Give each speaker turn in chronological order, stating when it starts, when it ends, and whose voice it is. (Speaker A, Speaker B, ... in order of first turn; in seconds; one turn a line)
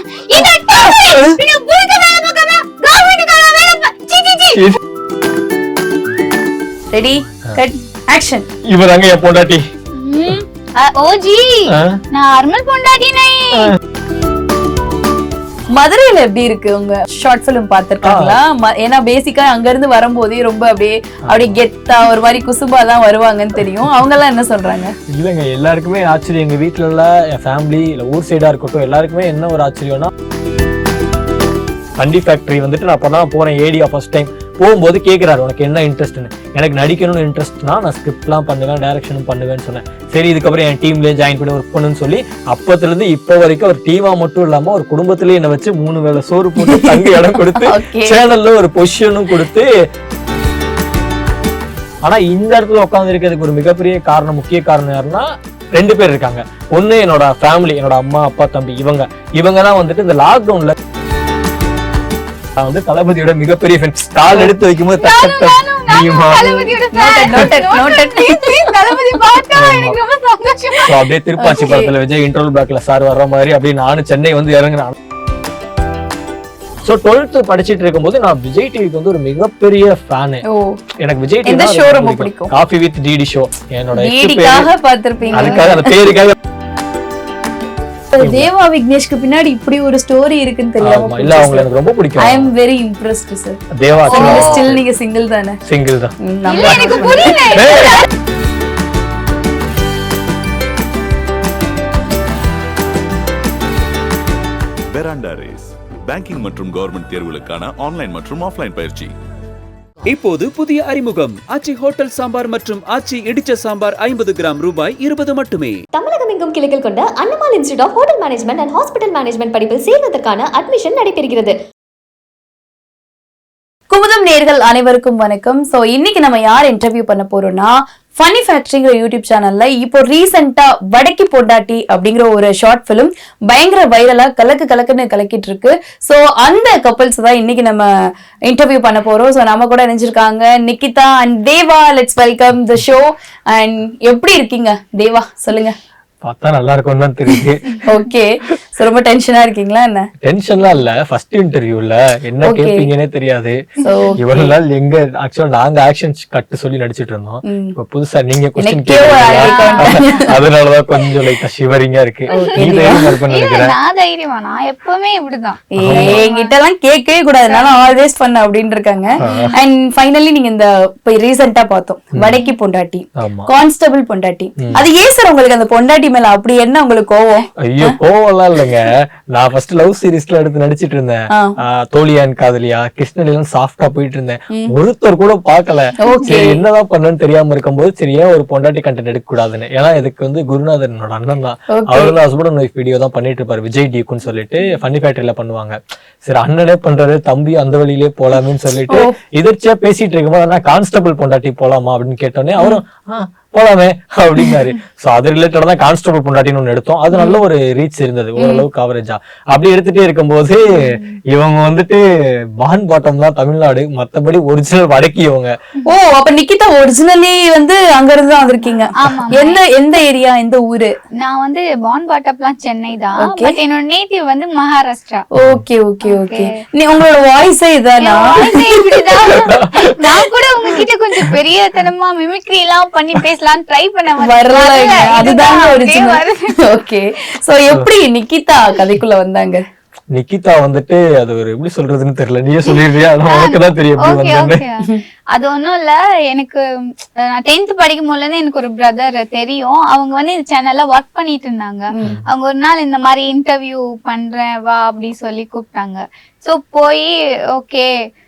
Speaker A: 0.1-4.6
Speaker B: 0.4-1.4
Speaker B: 4.5-4.8
Speaker C: 6.9-8.5
Speaker B: 8.6-9.7
Speaker A: 9.9-13.8
Speaker B: 11.7-12.0
Speaker C: 15.7-24.9
Speaker B: 18.0-18.4
Speaker B: 21.3-21.6
Speaker B: 25.1-30.1
Speaker B: 32.0-49.7
Speaker C: 46.6-48.2
Speaker B: 52.0-60.8
Speaker B: 62.6-66.6
Speaker A: 64.9-71.0
Speaker C: 66.3-69.2
Speaker B: 69.5-70.0
Speaker B: 70.8-75.0
Speaker C: 71.4-71.9
Speaker B: 76.8-80.4
Speaker C: 80.5-80.8
Speaker B: 81.0-84.7
Speaker C: 81.4-82.5
Speaker C: 83.9-86.0
Speaker A: 85.3-85.6
Speaker B: 85.3-86.3
Speaker C: 88.1-95.6
Speaker B: 88.2-88.5
Speaker B: 90.8-92.5
Speaker B: 93.7-94.8
Speaker A: 94.1-94.7
Speaker B: 95.7-96.2
Speaker C: 96.2-97.6
Speaker A: 96.5-98.1
Speaker B: 97.0-98.0
Speaker D: 104.9-109.1
Speaker E: 110.1-115.8
Speaker F: 115.9-121.5
Speaker C: 123.9-137.9
Speaker C: 138.5-145.8
Speaker B: 146.2-147.8
Speaker C: 147.8-150.1
Speaker B: 150.2-153.6
Speaker C: 152.4-152.9
Speaker A: 153.8-154.1
Speaker C: 153.8-154.5
Speaker B: 154.2-163.8
Speaker C: 157.4-157.8
Speaker C: 158.6-160.3
Speaker A: 159.2-160.3
Speaker C: 162.3-163.2
Speaker A: 162.3-166.5
Speaker C: 165.7-178.0
Speaker B: 165.8-166.2
Speaker A: 167.5-167.8
Speaker B: 169.2-169.5
Speaker A: 169.2-169.5
Speaker B: 173.2-173.5
Speaker B: 174.6-174.9
Speaker B: 177.6-212.0
Speaker C: 186.0-186.6
Speaker C: 191.7-192.2
Speaker C: 198.9-199.2
Speaker C: 207.1-207.4
Speaker C: 208.4-208.7
Speaker B: 212.6-215.5
Speaker C: 215.9-221.0
Speaker A: 219.0-219.6
Speaker A: 221.2-225.3
Speaker C: 223.2-223.6
Speaker C: 225.3-228.8
Speaker B: 225.4-225.6
Speaker A: 226.0-226.5
Speaker A: 228.0-236.7
Speaker B: 229.3-230.0
Speaker C: 234.2-239.6
Speaker B: 240.1-244.6
Speaker A: 243.3-257.9
Speaker C: 251.9-252.2